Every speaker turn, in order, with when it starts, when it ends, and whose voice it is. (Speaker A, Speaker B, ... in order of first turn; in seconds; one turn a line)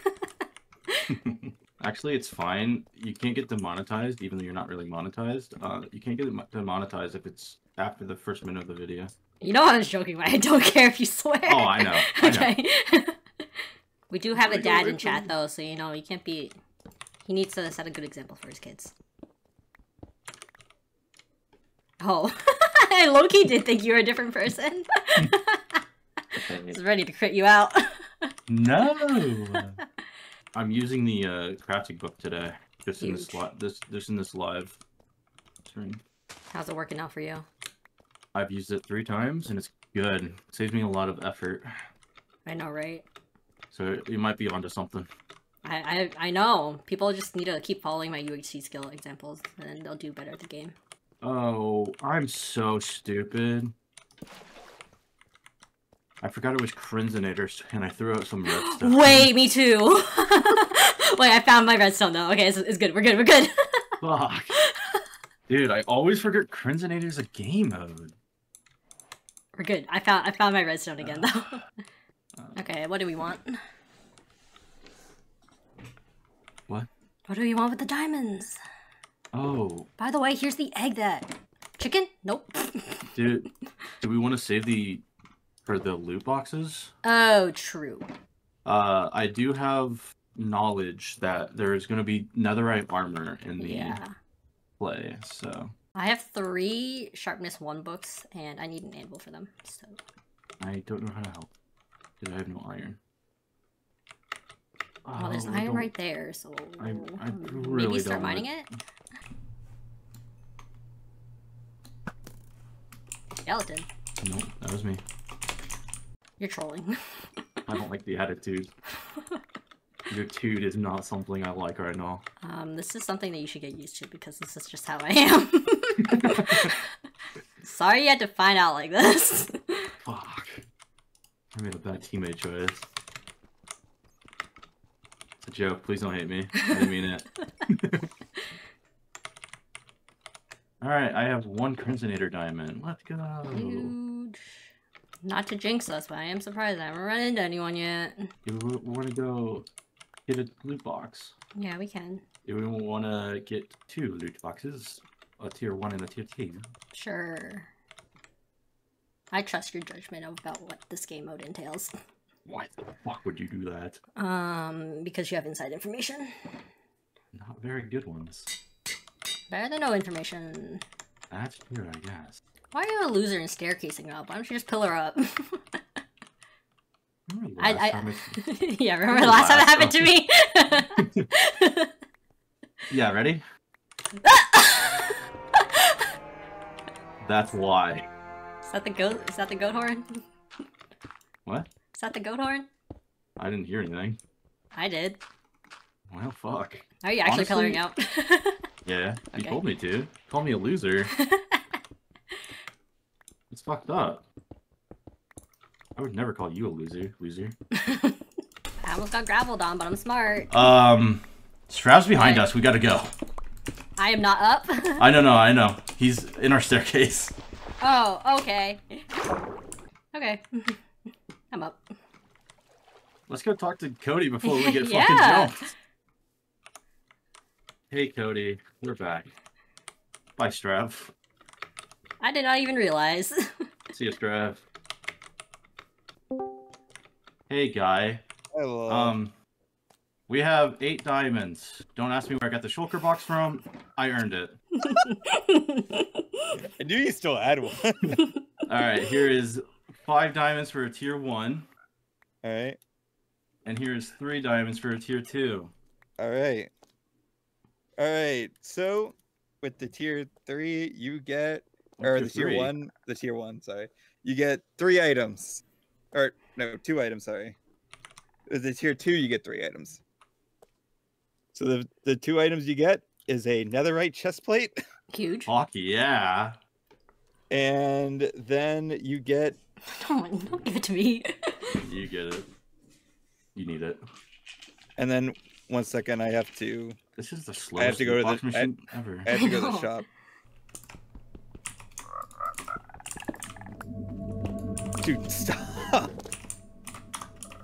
Speaker A: 1.1-9.1
Speaker B: 9.4-13.2
Speaker A: 11.5-12.6
Speaker B: 14.1-16.6
Speaker A: 14.3-15.3
Speaker B: 17.2-18.9
Speaker B: 22.0-25.8
Speaker B: 26.3-28.3
Speaker A: 26.4-26.8
Speaker A: 28.5-29.8
Speaker A: 30.5-34.8
Speaker B: 33.0-33.4
Speaker A: 35.6-36.0
Speaker B: 36.5-37.5
Speaker A: 38.3-41.9
Speaker B: 42.5-43.0
Speaker A: 43.7-45.1
Speaker B: 45.6-50.8
Speaker A: 51.2-53.7
Speaker A: 56.2-59.3
Speaker B: 58.5-64.0
Speaker A: 64.0-64.6
Speaker B: 64.6-65.0
Speaker A: 65.5-68.1
Speaker B: 69.6-71.6
Speaker A: 71.0-71.3
Speaker B: 72.5-73.6
Speaker B: 77.3-78.6
Speaker A: 79.3-79.9
Speaker B: 80.0-83.1
Speaker A: 83.1-83.5
Speaker A: 84.0-85.0
Speaker A: 85.7-86.9
Speaker B: 87.0-88.1
Speaker A: 88.7-94.0
Speaker B: 93.6-94.2
Speaker A: 94.8-95.7
Speaker B: 96.0-100.0
Speaker A: 100.6-101.5
Speaker A: 102.2-103.0
Speaker A: 105.0-105.9
Speaker B: 105.2-108.7
Speaker A: 106.8-108.5
Speaker B: 113.5-113.9
Speaker A: 114.2-115.0
Speaker B: 116.4-117.4
Speaker A: 117.7-118.7
Speaker A: 120.1-122.2
Speaker B: 122.4-126.9
Speaker A: 126.0-126.7
Speaker B: 127.6-129.9
Speaker A: 130.0-130.6
Speaker A: 131.5-132.9
Speaker A: 135.4-138.1
Speaker A: 140.8-143.9
Speaker B: 143.5-144.6
Speaker B: 145.2-148.3
Speaker A: 148.4-149.7
Speaker A: 150.3-151.3
Speaker B: 151.6-152.2
Speaker A: 152.4-156.7
Speaker B: 156.9-157.7
Speaker B: 159.3-161.9
Speaker A: 162.5-164.0
Speaker B: 164.2-166.6
Speaker A: 167.3-168.5
Speaker B: 169.5-170.8
Speaker A: 171.3-172.4
Speaker B: 172.7-175.8
Speaker A: 177.3-178.5
Speaker B: 177.6-181.9
Speaker A: 179.1-180.2
Speaker A: 181.0-181.3
Speaker A: 182.9-183.4
Speaker B: 184.2-186.1
Speaker A: 187.2-188.1
Speaker B: 188.7-190.2
Speaker B: 191.9-192.7
Speaker A: 193.4-194.2
Speaker B: 194.7-195.2
Speaker A: 196.1-197.8
Speaker B: 197.0-198.7
Speaker A: 198.9-201.1
Speaker B: 199.3-199.6
Speaker B: 201.2-201.7
Speaker A: 203.5-204.2
Speaker A: 206.0-207.6
Speaker B: 207.7-208.2
Speaker B: 208.8-210.5
Speaker A: 210.5-213.1
Speaker B: 212.2-212.5
Speaker B: 214.0-215.1
Speaker A: 215.0-217.3
Speaker B: 217.8-219.1
Speaker B: 220.1-220.8
Speaker B: 221.5-221.8
Speaker A: 223.3-225.7
Speaker B: 224.4-225.7
Speaker A: 227.9-229.3
Speaker A: 230.4-231.1
Speaker B: 232.2-233.7
Speaker A: 233.9-234.6
Speaker A: 237.5-238.2
Speaker C: 238.5-239.2
Speaker A: 238.9-239.3
Speaker A: 240.3-244.6
Speaker B: 244.8-246.5
Speaker C: 246.5-248.2
Speaker A: 248.7-251.7
Speaker C: 252.4-252.8
Speaker A: 253.7-255.7
Speaker C: 256.2-256.7
Speaker C: 258.0-267.6
Speaker A: 262.0-262.7
Speaker C: 268.5-270.0
Speaker C: 271.5-274.8
Speaker B: 275.1-275.5
Speaker A: 275.5-276.6
Speaker C: 277.5-279.6
Speaker B: 279.9-281.5
Speaker A: 281.8-282.5
Speaker A: 283.6-284.0
Speaker C: 285.0-287.0
Speaker A: 287.2-289.3
Speaker C: 287.8-288.7
Speaker C: 289.2-290.1
Speaker B: 289.3-289.9
Speaker C: 295.0-296.1